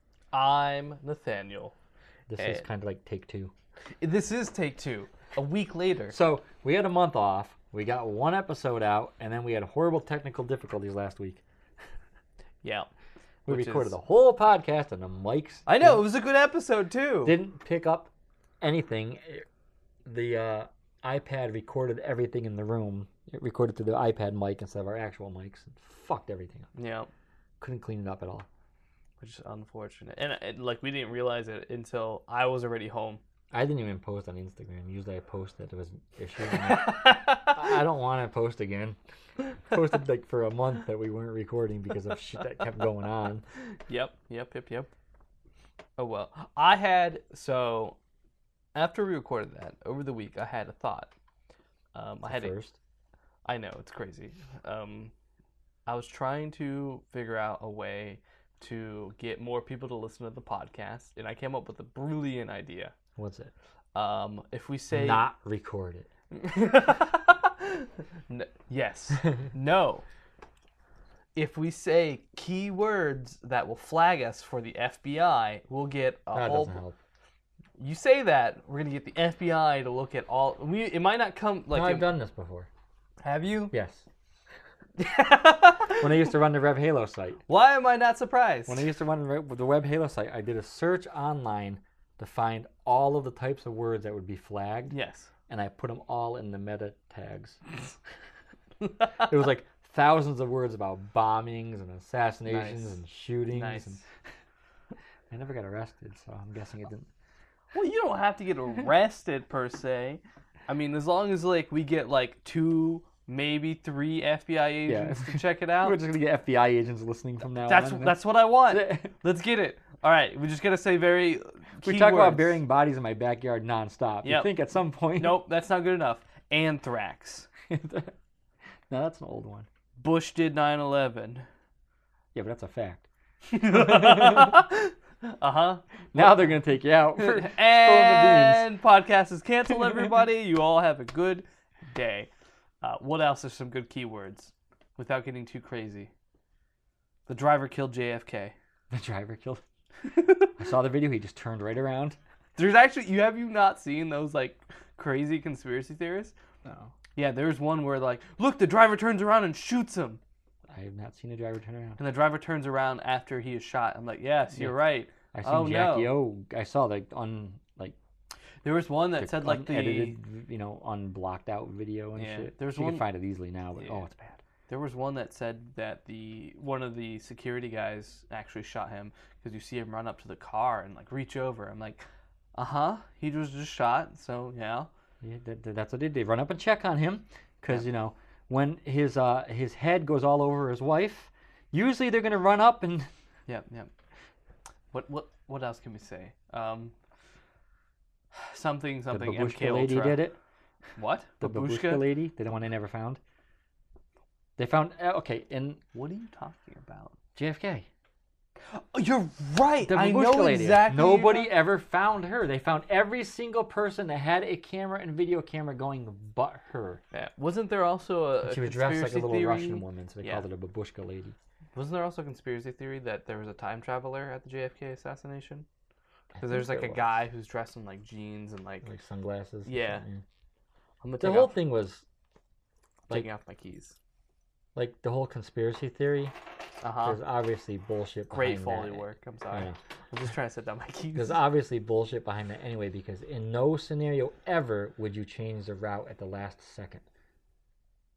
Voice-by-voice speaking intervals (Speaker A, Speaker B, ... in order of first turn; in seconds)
Speaker A: 0.3-1.7, 4.0-6.1, 12.6-12.9, 13.4-13.9, 15.7-17.4, 26.7-27.1, 29.2-33.2, 36.5-37.7, 43.7-44.9, 46.0-48.0, 48.7-51.1, 51.9-52.5, 53.5-55.1, 55.9-62.9, 63.9-65.2, 66.3-70.0, 71.3-76.8, 77.8-82.1, 83.2-83.7, 85.0-86.1, 87.5-88.8, 94.9-95.3, 102.5-103.0, 103.5-104.0, 107.7-116.0, 117.6-122.6, 124.2-124.5, 125.2-127.5, 130.0-131.4, 133.5-136.5, 137.2-142.3, 142.8-146.1, 147.3-148.5, 150.0-150.5, 152.6-156.3, 157.2-160.2, 162.0-166.2, 168.6-170.2, 172.2-173.1, 174.7-182.0, 182.5-184.9, 193.5-193.9, 194.9-196.9, 198.3-200.2, 201.0-202.1, 205.9-207.2, 208.7-211.5, 217.1-220.4, 221.7-225.7, 226.4-228.9, 229.7-230.0, 231.0-231.6, 233.1-234.0, 236.8-237.2, 238.3-241.4
Speaker B: 2.3-3.5, 6.1-11.4, 13.5-16.0, 17.2-19.4, 20.0-26.7, 27.6-28.5, 33.5-39.0, 39.6-43.4, 52.2-52.8, 63.1-63.5, 64.9-66.1, 76.3-77.0, 81.7-82.7, 83.7-84.0, 86.0-87.4, 88.7-94.9, 95.5-97.6, 99.2-104.0, 105.3-107.1, 114.9-119.1, 121.8-125.4, 127.7-128.1, 128.9-129.7, 132.3-133.1, 133.6-134.6, 136.1-138.7, 148.9-149.6, 150.6-152.2, 156.7-156.9, 160.7-162.0, 165.3-167.9, 169.2-174.4, 185.2-193.1, 199.1-200.4, 201.4-203.2, 204.6-205.8, 207.3-207.9, 209.8-217.0, 218.4-221.3, 226.3-227.1, 228.8-230.2, 231.2-232.0, 234.7-236.3, 237.0-239.8, 241.1-247.0